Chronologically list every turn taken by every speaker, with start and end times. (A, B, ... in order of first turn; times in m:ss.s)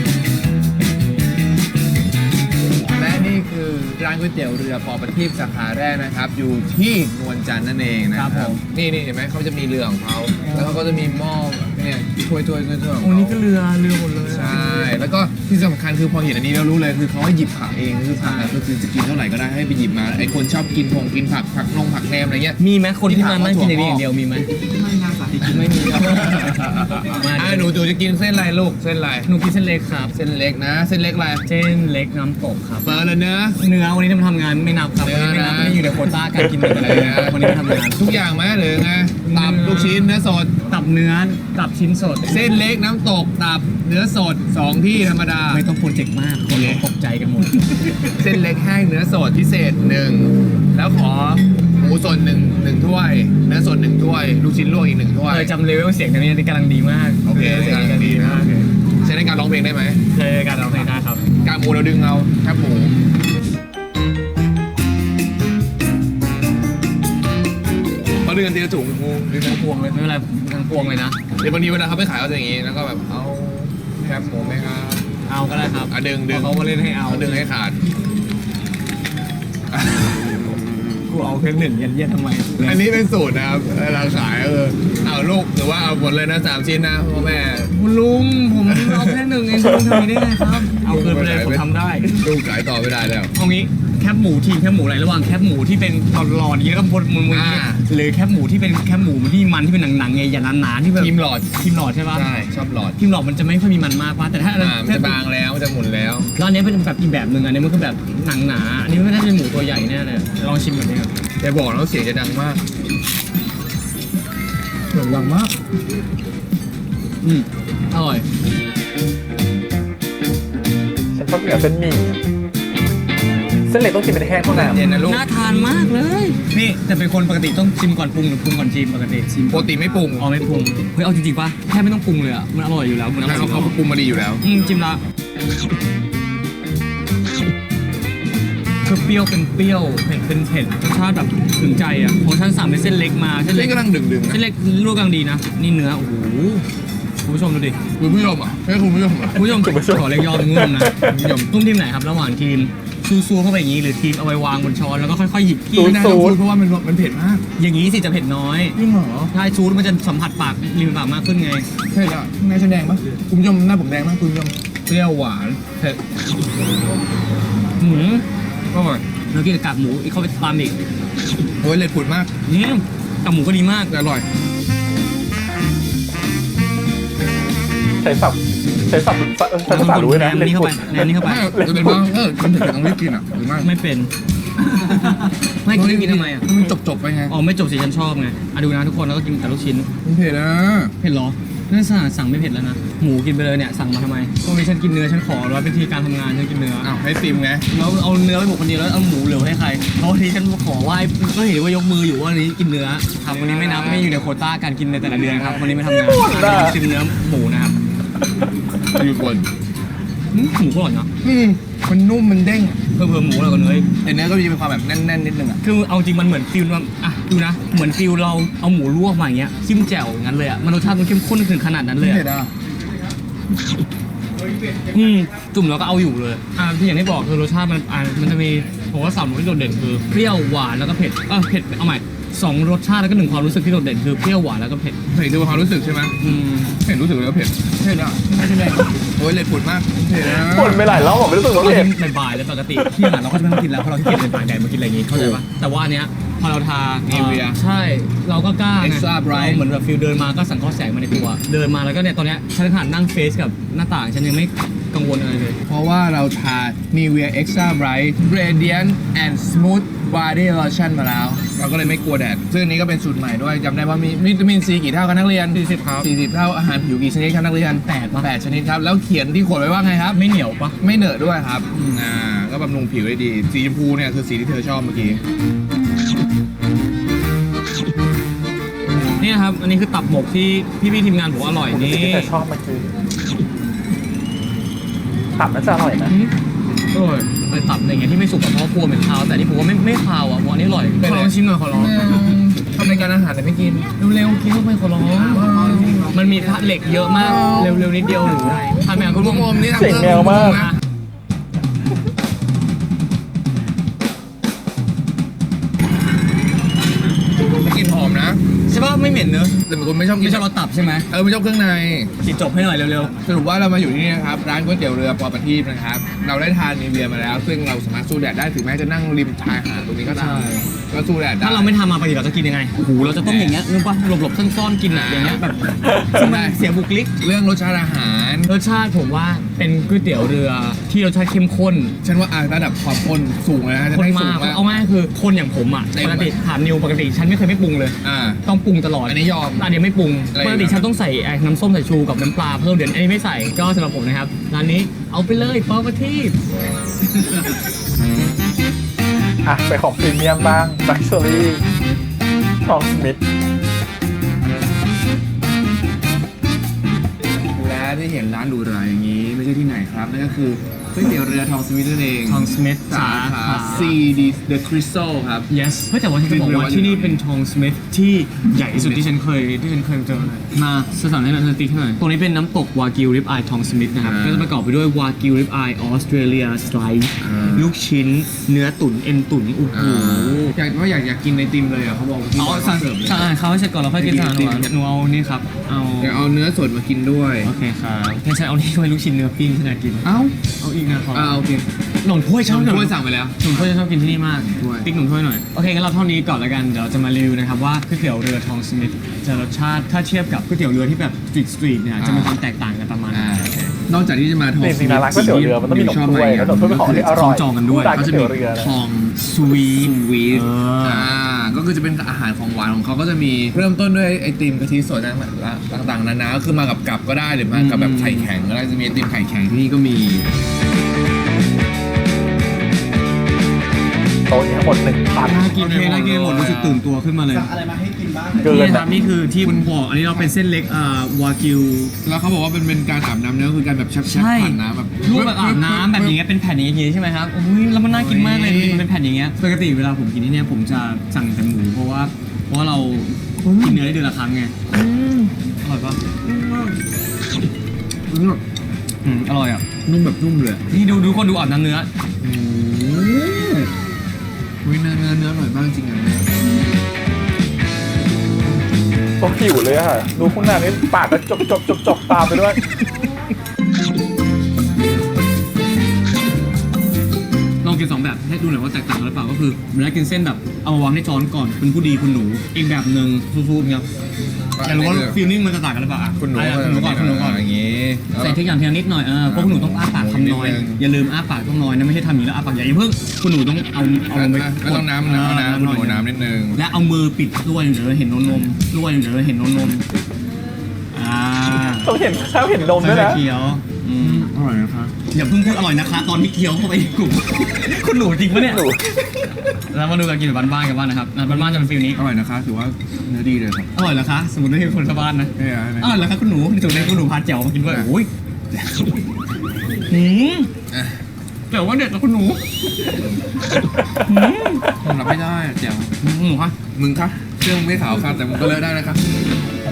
0:02.8-0:13.4 A
0:08.1-0:08.6 B
0:13.0-0:14.8 B
0:14.3-0:24.0 A
0:18.2-0:18.6 B
0:22.6-0:24.5 B
0:24.6-0:29.3 A
0:25.4-0:27.7 B
0:29.2-0:30.1 B
0:30.1-0:31.4 A
0:31.4-0:33.0 B
0:32.8-0:33.6 A
0:33.6-0:38.1 B
0:35.0-0:40.6 A
0:39.2-0:40.1 B
0:40.7-0:42.3 B
0:42.2-0:45.6 A
0:45.5-0:48.3 B
0:46.5-0:46.8 A
0:48.2-0:55.5 A
0:55.3-0:58.7 B
0:57.2-0:58.4 A
0:59.0-1:00.0 A
1:00.1-1:01.2 B
1:01.4-1:02.9 A
1:08.2-1:10.0 A
1:09.8-1:11.2 B
1:10.8-1:15.0 A
1:15.3-1:17.4 B
1:15.9-1:17.8 A
1:19.7-1:20.6 A
1:21.1-1:22.8 B
1:22.6-1:27.7 A
1:27.7-1:32.2 B
1:28.7-1:29.2 A
1:30.7-1:31.7 A
1:32.2-1:33.3 A
1:33.3-1:42.3 B
1:37.3-1:37.8 A
1:41.0-1:41.6 A
1:42.1-1:43.0 A
1:43.0-1:45.2 B
1:44.6-1:46.3 A
1:46.4-1:51.1 B
1:51.4-1:52.6 A
1:54.9-1:55.5 A
1:57.2-1:58.2 B
2:01.1-2:02.2 C
2:03.6-2:05.0 C
2:04.4-2:05.3 A
2:05.0-2:13.8 B
2:09.5-2:10.3 A
2:13.2-2:14.4 A
2:14.4-2:15.0 B
2:18.8-2:26.6 B
2:23.5-2:24.4 A
2:27.2-2:27.8 B
2:28.0-2:29.4 A
2:29.3-2:31.2 C
2:29.3-2:36.0 B
2:31.0-2:31.5 A
2:35.7-2:36.4 C
2:35.7-2:37.4 A
2:37.6-2:38.8 B
2:38.7-2:39.3 A
2:39.3-2:41.7 B
2:41.9-2:46.0 A
2:47.8-2:48.2 B
2:48.7-2:49.0 A
2:49.3-2:50.8 B
2:51.6-2:52.3 A
2:52.4-2:54.0 B
2:53.9-2:54.2 A
2:58.0-3:01.0 C
2:59.7-3:01.6 B
3:01.1-3:03.7 A
3:01.5-3:02.6 C
3:03.6-3:04.1 B
3:04.7-3:06.5 B
3:05.7-3:07.3 A
3:07.3-3:09.9 B
3:10.0-3:10.9 A
3:11.0-3:16.9 B
3:16.8-3:17.6 A
3:17.7-3:27.8 B
3:23.2-3:24.1 A
3:25.1-3:25.8 A
3:25.8-3:26.8 C
3:28.9-3:29.5 A
3:30.3-3:31.1 B
3:31.2-3:32.8 A
3:32.9-3:33.9 B
3:34.0-3:35.6 A
3:35.6-3:42.2 B
3:42.0-3:42.5 A
3:44.9-3:55.0 B
3:55.1-3:56.2 A
3:56.2-3:56.8 B
3:56.8-3:58.3 A
3:58.2-3:58.9 B
3:58.9-4:01.0 A
4:00.2-4:01.9 C
4:01.6-4:15.6 B
4:05.1-4:05.4 A
4:07.1-4:07.6 A
4:08.8-4:09.6 A
4:15.6-4:30.2 A
4:25.5-4:26.1 B
4:27.8-4:28.3 B
4:30.1-4:30.7 B
4:30.8-4:35.2 A
4:39.2-4:42.3 B
4:41.7-4:42.9 C
4:45.4-4:46.1 C
4:46.9-4:53.1 B
4:51.0-4:53.9 A
4:54.0-5:00.8 B
4:55.2-4:56.2 A
4:57.1-4:57.9 A
4:58.9-5:00.7 A
4:59.7-5:00.7 C
5:07.4-5:08.4 A
5:08.7-5:09.6 B
5:09.7-5:10.5 A
5:10.2-5:11.1 B
5:11.1-5:12.1 A
5:12.2-5:13.3 B
5:13.2-5:21.7 A
5:20.1-5:20.7 B
5:21.4-5:27.1 B
5:23.0-5:23.6 A
5:24.9-5:25.4 A
5:25.8-5:26.2 C
5:26.1-5:26.6 A
5:27.2-5:28.5 A
5:28.5-5:32.0 B
5:32.0-5:34.6 A
5:33.9-5:46.4 B
5:35.9-5:36.3 A
5:38.0-5:38.4 A
5:39.0-5:39.7 A
5:40.3-5:40.8 A
5:49.4-5:51.6 C
5:52.6-5:53.2 C
5:57.3-6:05.5 A
6:02.3-6:04.0 B
6:05.5-6:20.5 B
6:06.2-6:07.2 A
6:08.7-6:09.0 A
6:14.0-6:14.5 A
6:17.2-6:17.7 A
6:19.7-6:23.3 A
6:22.4-6:26.2 B
6:24.0-6:24.7 A
6:26.0-6:27.5 A
6:27.4-6:31.4 B
6:30.0-6:30.4 A
6:31.1-6:31.6 A
6:32.0-6:43.7 B
6:32.4-6:33.7 A
6:34.5-6:34.9 A
6:42.0-6:42.3 A
6:43.1-6:47.2 A
6:44.6-6:48.7 C
6:46.9-6:48.3 B
6:48.5-7:00.3 A
6:49.2-6:51.1 B
6:57.5-6:58.3 B
7:04.3-7:05.5 C
7:05.2-7:07.5 B
7:05.5-7:10.3 A
7:08.4-7:08.9 C
7:08.4-7:12.0 B
7:12.0-7:16.2 A
7:14.1-7:24.7 B
7:17.9-7:18.9 A
7:23.4-7:23.8 A
7:24.7-7:25.3 A
7:25.6-7:26.2 B
7:26.2-7:26.8 A
7:28.1-7:28.4 A
7:29.0-7:29.6 B
7:29.8-7:30.7 A
7:30.7-7:31.9 B
7:32.2-7:33.7 A
7:34.6-7:36.3 A
7:39.2-7:42.6 C
7:47.6-7:53.9 B
7:54.6-7:55.2 A
7:54.6-7:57.4 B
7:56.2-7:58.4 A
7:58.1-8:09.8 B
7:59.3-8:00.8 A
8:04.1-8:06.6 A
8:10.9-8:11.9 B
8:11.8-8:13.2 C
8:12.8-8:14.3 B
8:14.0-8:15.0 A
8:15.1-8:18.7 B
8:18.4-8:19.1 C
8:19.5-8:22.0 B
8:21.3-8:23.7 A
8:23.8-8:28.1 B
8:25.4-8:26.0 A
8:28.5-8:28.9 A
8:29.9-8:30.5 B
8:30.7-8:31.0 A
8:31.5-8:32.4 B
8:34.0-8:34.6 B
8:34.8-8:36.0 A
8:36.0-8:36.6 B
8:36.6-8:39.0 A